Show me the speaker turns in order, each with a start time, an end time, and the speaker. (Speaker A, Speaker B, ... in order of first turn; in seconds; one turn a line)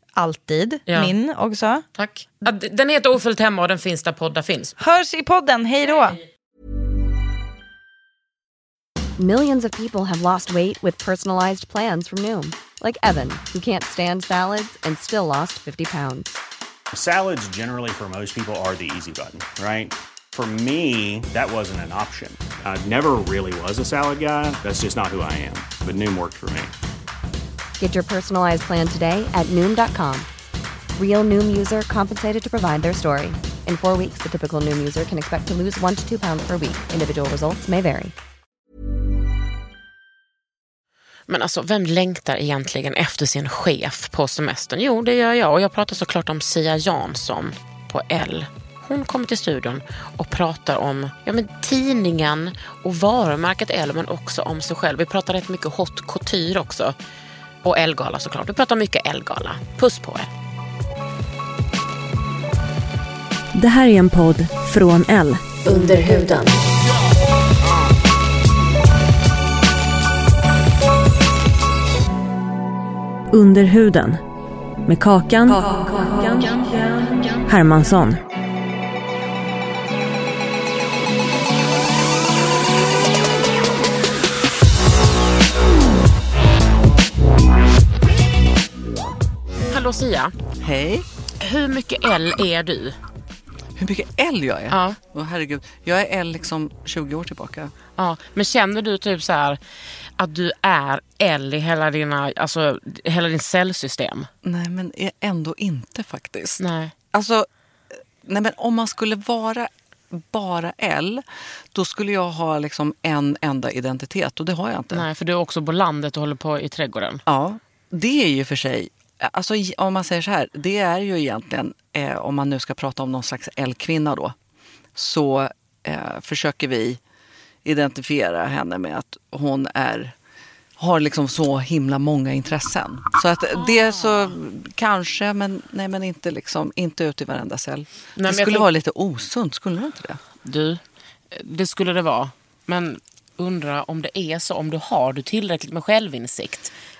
Speaker A: 0.1-1.8
Speaker B: 0.9-1.1
Speaker B: 1.9-4.7
Speaker A: 4.8-6.2
Speaker C: 9.2-16.3
Speaker D: 16.9-26.7
Speaker C: 27.8-30.3
Speaker C: 30.9-38.1
Speaker B: 41.3-56.9
Speaker B: 57.6-60.3
Speaker E: 63.5-66.6
Speaker E: 73.3-74.2
Speaker E: 74.8-76.7
Speaker E: 77.5-78.2
Speaker B: 89.7-90.3
Speaker F: 90.6-91.0
Speaker B: 91.4-93.0
Speaker F: 93.8-97.7
Speaker B: 94.7-95.0
Speaker B: 98.0-99.6
Speaker B: 100.2-104.3
Speaker F: 104.4-106.6
Speaker B: 106.6-106.9
Speaker F: 107.1-115.1
Speaker B: 114.9-117.2
Speaker F: 117.2-124.3
Speaker F: 124.9-127.0
Speaker F: 127.6-130.1
Speaker F: 130.8-140.2
Speaker B: 138.2-138.7
Speaker B: 140.4-146.7